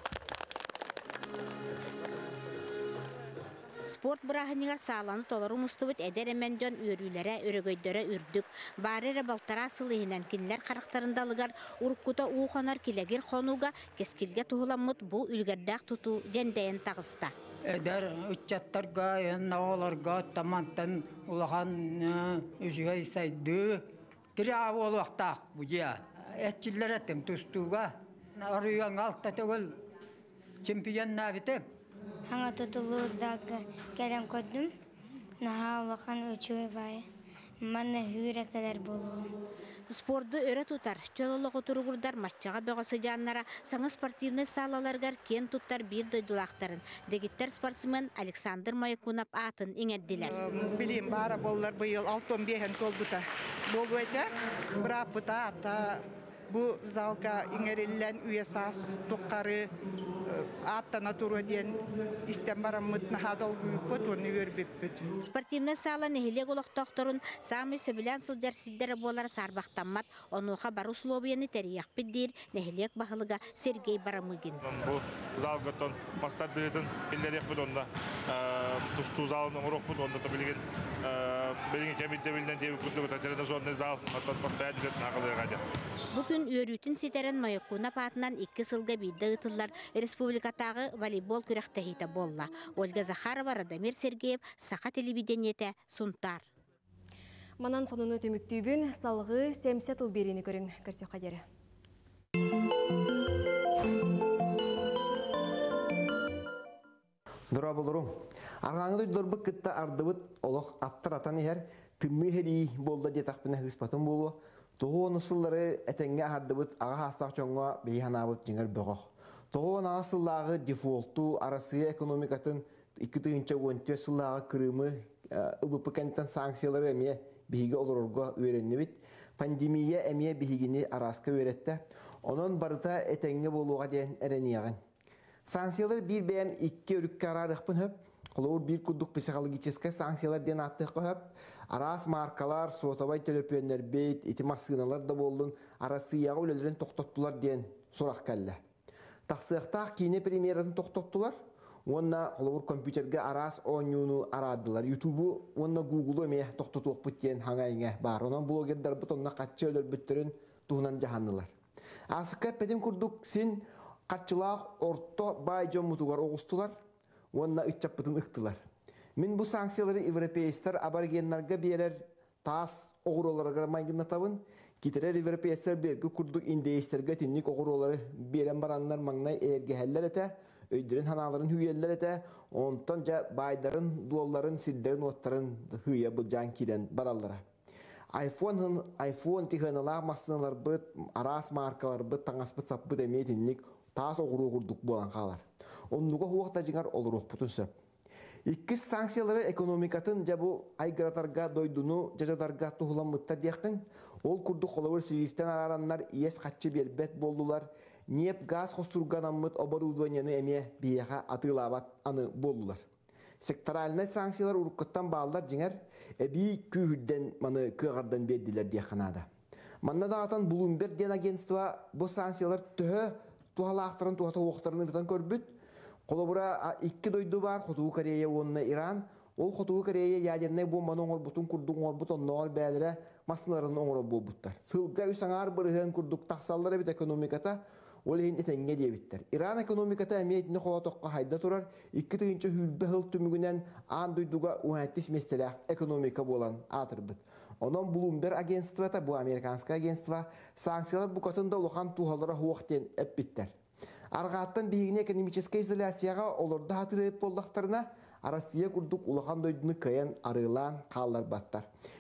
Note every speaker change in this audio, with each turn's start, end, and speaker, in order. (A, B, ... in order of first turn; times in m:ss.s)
0:03.9-0:17.3 A
0:17.7-0:29.8 B
0:30.6-0:31.6 B
0:32.3-0:34.7 C
0:35.4-0:37.0 C
0:37.6-0:39.3 C
0:39.9-0:50.3 A
0:50.2-0:59.7 D
1:00.3-1:05.1 D
1:05.2-1:14.6 A
1:14.6-1:25.6 E
1:26.1-1:36.4 A
1:37.6-1:41.4 F
1:47.5-2:14.8 G
2:15.5-2:28.6 G
2:29.3-2:31.4 G
2:31.9-2:41.5 G
2:42.1-2:46.7 G
2:47.3-2:48.6 G
2:49.2-3:07.4 G
3:08.1-3:17.7 G
3:18.5-3:32.8 G
3:33.4-3:39.3 G
3:39.8-3:45.5 G
3:46.1-4:13.5 G
4:14.1-4:21.7 G